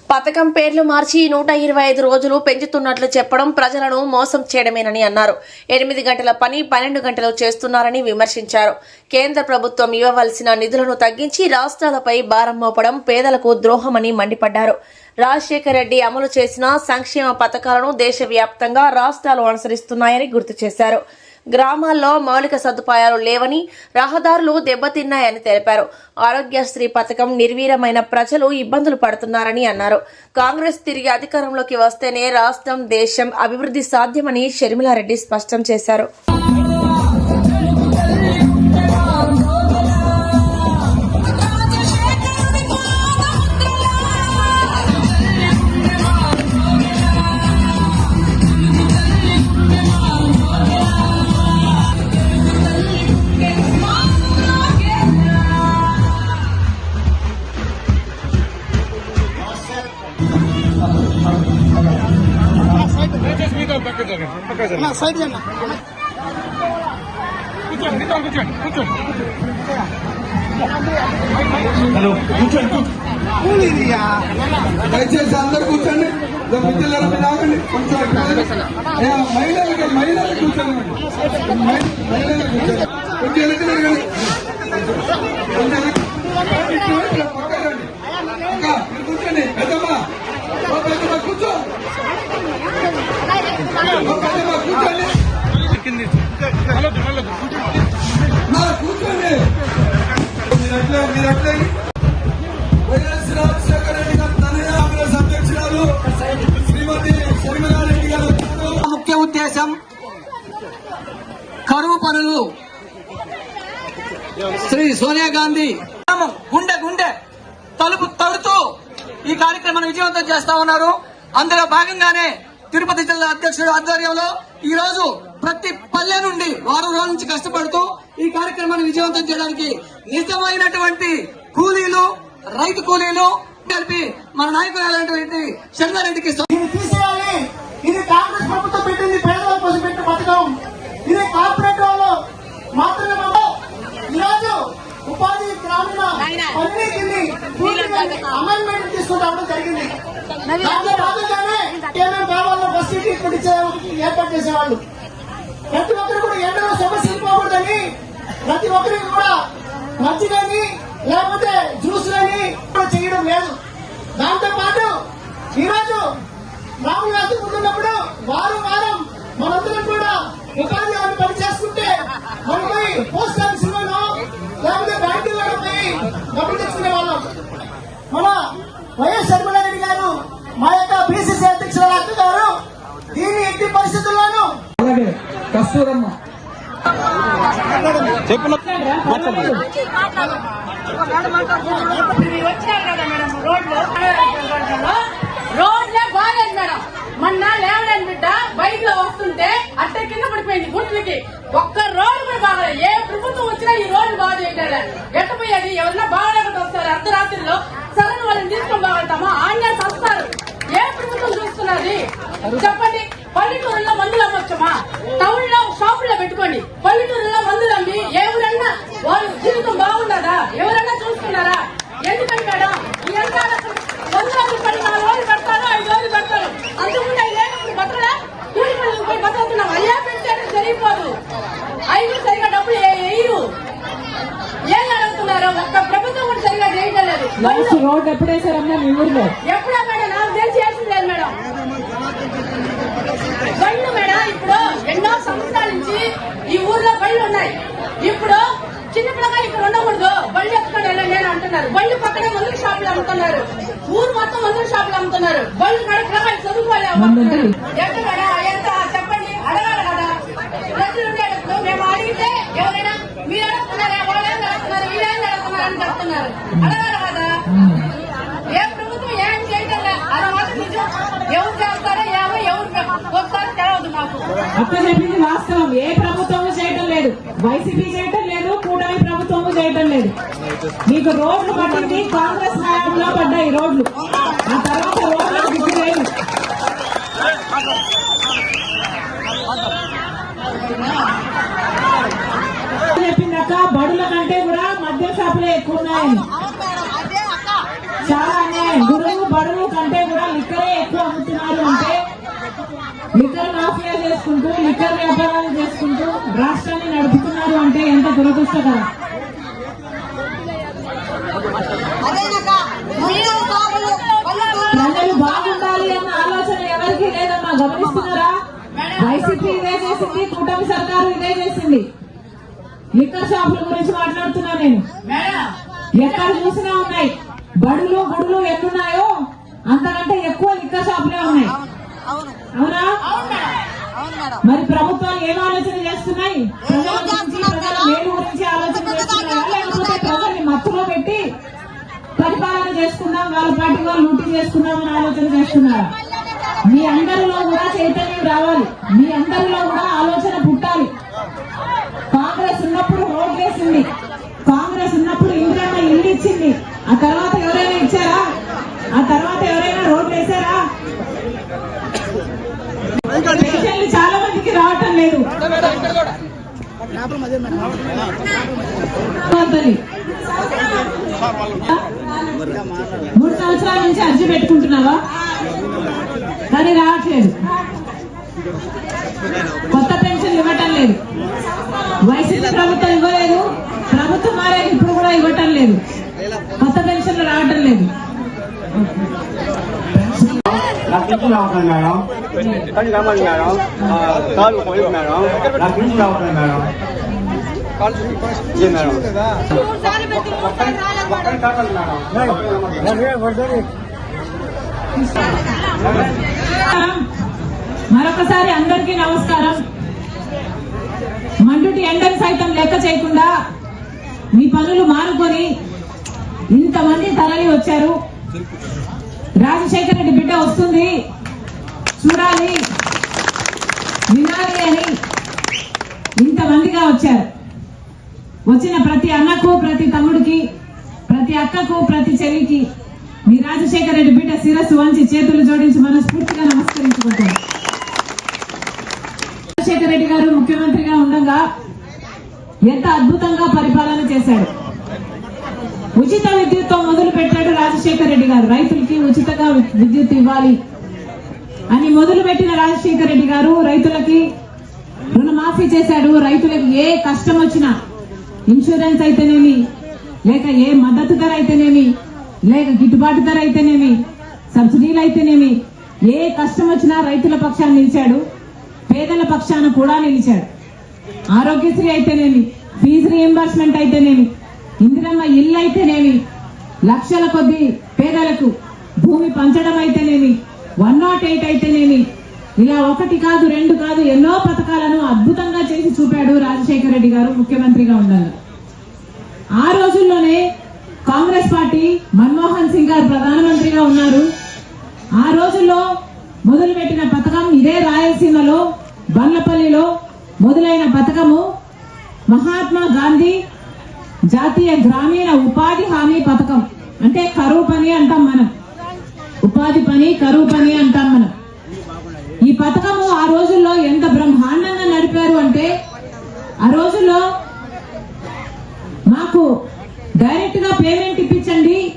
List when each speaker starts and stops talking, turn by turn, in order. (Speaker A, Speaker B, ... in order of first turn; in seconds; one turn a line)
Speaker A: 0.1-21.0
Speaker A: 21.6-36.1
Speaker B: 74.9-81.0
Speaker B: 81.5-84.1
Speaker B: 85.5-87.9
Speaker B: 88.5-90.0
Speaker B: 90.7-91.7
Speaker B: 93.9-95.1
Speaker B: 98.5-99.4
Speaker B: 100.5-101.7
Speaker B: 102.9-108.8
Speaker C: 108.8-109.8
Speaker C: 111.7-112.5
Speaker C: 114.6-117.2
Speaker C: 117.8-136.4
Speaker D: 136.5-140.5
Speaker D: 141.1-142.1
Speaker D: 142.7-143.5
Speaker D: 144.1-149.9
Speaker E: 146.2-146.5
Speaker D: 150.6-154.8
Speaker D: 155.7-157.8
Speaker D: 158.4-159.3
Speaker D: 160.0-163.6
Speaker D: 164.2-164.9
Speaker D: 165.6-166.0
Speaker D: 166.8-171.9
Speaker D: 172.4-174.0
Speaker D: 174.6-177.2
Speaker D: 178.1-178.4
Speaker D: 179.0-182.5
Speaker D: 183.1-184.5
Speaker F: 188.5-189.6
Speaker E: 191.6-195.0
Speaker E: 195.5-231.1
Speaker E: 231.9-233.5
Speaker E: 234.7-237.8
Speaker F: 237.4-239.3
Speaker E: 239.4-241.3
Speaker E: 243.5-260.1
Speaker F: 256.9-257.5
Speaker E: 260.8-267.3
Speaker F: 267.5-267.8
Speaker E: 268.5-274.2
Speaker F: 274.6-280.1
Speaker F: 280.8-283.9
Speaker F: 284.4-286.1
Speaker F: 292.9-296.2
Speaker F: 298.0-302.0
Speaker F: 303.1-308.9
Speaker E: 312.1-314.7
Speaker F: 314.7-318.3
Speaker E: 318.8-319.4
Speaker F: 319.0-321.9
Speaker F: 322.9-324.9
Speaker E: 325.0-325.5
Speaker F: 325.9-329.1
Speaker F: 329.7-331.5
Speaker F: 332.5-333.0
Speaker E: 333.1-333.5
Speaker F: 334.4-341.3
Speaker F: 342.2-345.9
Speaker F: 346.6-350.9
Speaker F: 352.1-353.9
Speaker F: 354.4-358.2
Speaker F: 358.9-360.6
Speaker F: 363.3-365.3
Speaker F: 369.2-369.8
Speaker F: 371.6-371.9
Speaker F: 373.1-375.0
Speaker F: 376.5-377.4
Speaker F: 379.7-381.0
Speaker F: 382.0-385.8
Speaker F: 386.6-387.9
Speaker G: 390.9-392.0
Speaker G: 393.1-393.4
Speaker G: 394.2-396.7
Speaker G: 398.5-399.0
Speaker G: 400.2-403.0
Speaker F: 406.6-407.0
Speaker F: 407.9-409.6
Speaker F: 411.4-413.3
Speaker F: 414.3-415.5
Speaker F: 416.5-418.0
Speaker F: 419.4-420.9
Speaker F: 422.0-422.6
Speaker F: 424.1-424.9
Speaker F: 426.2-427.3
Speaker F: 428.4-430.4
Speaker F: 431.1-432.7
Speaker F: 433.2-437.4
Speaker F: 439.5-441.4
Speaker F: 442.6-444.5
Speaker F: 445.9-450.6
Speaker F: 451.7-454.3
Speaker F: 455.1-457.7
Speaker F: 458.5-459.6
Speaker F: 460.2-461.9
Speaker F: 462.4-468.2
Speaker F: 468.9-470.5
Speaker F: 471.3-476.2
Speaker F: 476.8-482.1
Speaker F: 482.6-488.3
Speaker F: 489.6-490.4
Speaker F: 491.1-494.3
Speaker F: 495.2-495.8
Speaker F: 496.4-498.6
Speaker F: 499.1-499.9
Speaker F: 500.4-501.4
Speaker F: 502.3-503.4
Speaker F: 504.3-508.5
Speaker F: 509.4-511.3
Speaker F: 512.4-515.7
Speaker F: 516.6-517.2
Speaker F: 519.1-519.5
Speaker F: 520.2-521.8